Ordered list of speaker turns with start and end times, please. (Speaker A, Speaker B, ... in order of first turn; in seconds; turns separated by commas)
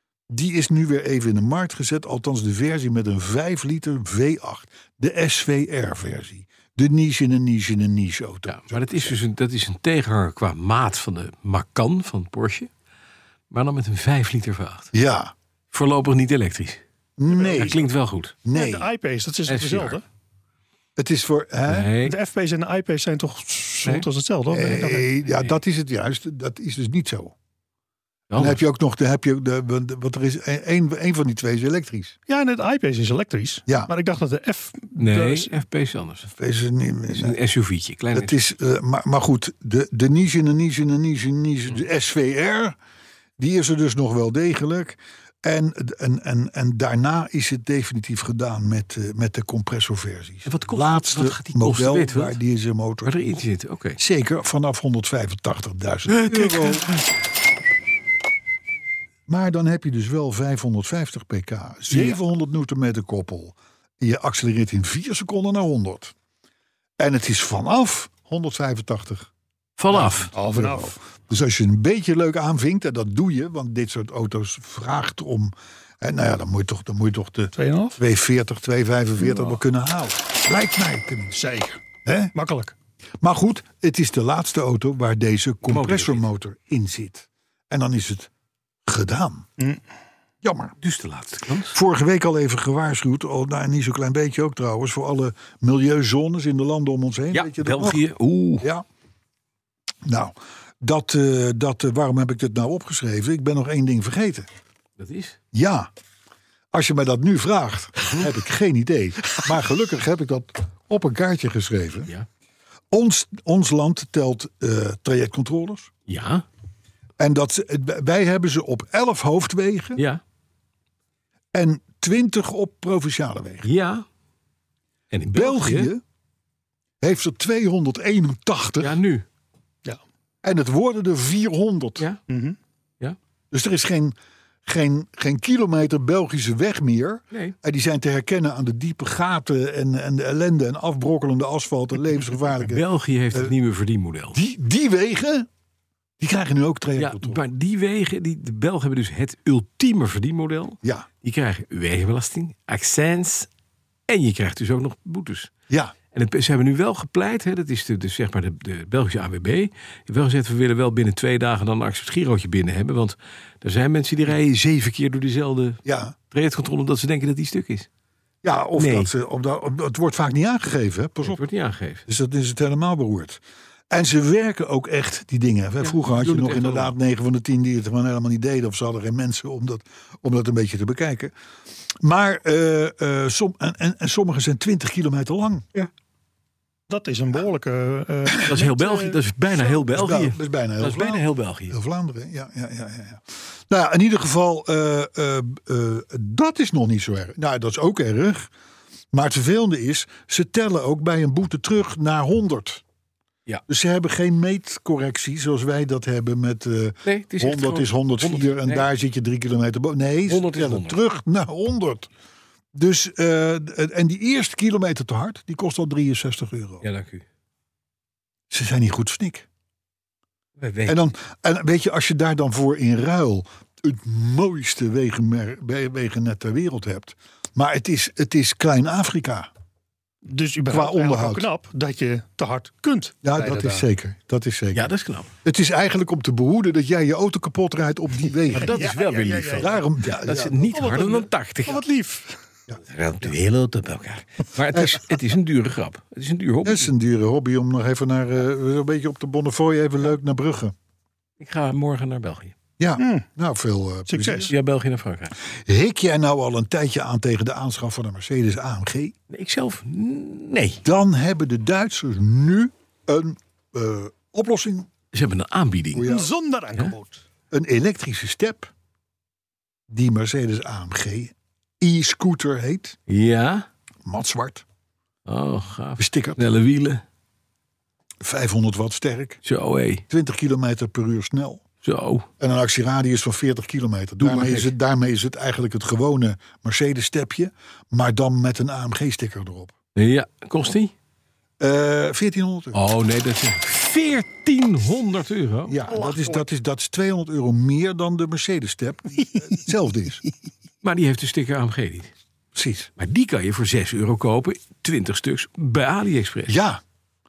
Speaker A: 0.3-9.2, Speaker B: 8.5-12.7, Speaker B: 13.5-14.9, Speaker A: 14.9-15.3, Speaker B: 15.7-16.8, Speaker A: 17.2-17.8, Speaker C: 17.3-17.9, Speaker B: 17.4-18.4, Speaker A: 18.4-18.9, Speaker C: 18.5-20.0, Speaker B: 19.5-20.0, Speaker A: 21.0-21.9, Speaker B: 21.7-22.2, Speaker C: 22.0-25.1, Speaker A: 24.5-27.3, Speaker B: 28.3-28.6, Speaker A: 28.4-32.1, Speaker C: 32.3-35.6, Speaker B: 35.0-36.3, Speaker A: 36.3-37.4, Speaker B: 37.1-38.4, Speaker A: 38.1-42.8, Speaker A: 43.4-53.2, Speaker B: 50.5-52.4, Speaker B: 53.0-54.0, Speaker A: 54.0-56.9, Speaker B: 56.1-57.0, Speaker A: 59.3-66.1, Speaker C: 61.9-62.2, Speaker A: 67.0-69.3, Speaker B: 69.8-70.3, Speaker A: 69.9-81.4, Speaker C: 70.3-71.0, Speaker C: 77.6-78.0, Speaker C: 81.3-81.8, Speaker A: 82.0-82.3, Speaker C: 82.3-82.7, Speaker A: 83.2-88.3, Speaker B: 85.6-86.2, Speaker A: 88.9-89.5, Speaker A: 90.4-90.8, Speaker B: 90.8-91.8, Speaker A: 91.7-98.0, Speaker B: 97.3-98.7, Speaker A: 100.0-104.5, Speaker B: 105.0-105.4, Speaker A: 105.5-105.9, Speaker A: 106.7-112.1, Speaker A: 112.9-115.9, Speaker B: 116.1-116.5, Speaker A: 117.2-120.0, Speaker B: 120.0-120.2, Speaker A: 121.5-123.7, Speaker B: 123.6-124.0, Speaker B: 125.1-125.9, Speaker A: 125.3-126.0, Speaker A: 127.0-129.0, Speaker B: 128.8-129.3, Speaker A: 130.4-132.1, Speaker C: 132.3-132.6, Speaker A: 133.5-134.2, Speaker A: 134.7-143.5, Speaker B: 142.6-144.4, Speaker A: 144.3-145.5, Speaker A: 146.2-147.4, Speaker B: 147.0-153.5, Speaker B: 154.1-155.5, Speaker A: 155.7-155.9, Speaker B: 156.1-167.9, Speaker A: 165.8-166.2, Speaker A: 168.4-171.4, Speaker B: 168.8-169.1, Speaker B: 171.2-172.1, Speaker A: 172.1-181.3, Speaker B: 175.8-176.9, Speaker A: 181.9-185.7, Speaker C: 186.9-189.2, Speaker B: 188.4-191.8, Speaker A: 189.9-198.5, Speaker A: 199.1-202.8, Speaker A: 203.7-212.1, Speaker B: 207.1-208.9, Speaker B: 210.3-211.0, Speaker A: 212.7-216.8, Speaker B: 216.8-217.2, Speaker A: 218.5-219.5, Speaker B: 220.6-221.1, Speaker A: 220.9-229.5, Speaker C: 230.2-233.9, Speaker A: 230.7-231.5, Speaker A: 233.2-234.9, Speaker B: 234.7-235.3, Speaker A: 235.4-238.9, Speaker B: 238.5-241.8, Speaker C: 238.5-239.8, Speaker A: 239.5-240.8, Speaker C: 240.7-242.4, Speaker B: 242.8-246.9, Speaker A: 244.7-245.0, Speaker A: 246.6-250.7, Speaker B: 251.4-252.6, Speaker A: 252.8-254.5, Speaker C: 253.0-253.3, Speaker C: 254.1-254.5, Speaker B: 254.5-255.3, Speaker A: 255.5-259.1, Speaker B: 259.3-260.8, Speaker A: 260.8-264.9, Speaker B: 265.1-266.1, Speaker A: 265.9-266.3, Speaker C: 266.0-267.2, Speaker A: 267.5-268.7, Speaker A: 269.9-273.0, Speaker B: 273.1-273.7, Speaker A: 274.1-274.6, Speaker B: 275.3-277.0, Speaker A: 276.0-276.4, Speaker A: 278.2-279.4, Speaker B: 279.4-280.0, Speaker A: 280.1-281.6, Speaker B: 281.8-282.3, Speaker A: 282.4-289.7, Speaker B: 284.2-284.7, Speaker B: 290.0-290.9, Speaker A: 291.6-292.8, Speaker B: 292.7-295.8, Speaker A: 295.7-300.2, Speaker C: 296.0-296.3, Speaker B: 300.8-302.1, Speaker A: 302.5-302.9, Speaker B: 303.0-306.6, Speaker A: 306.5-306.8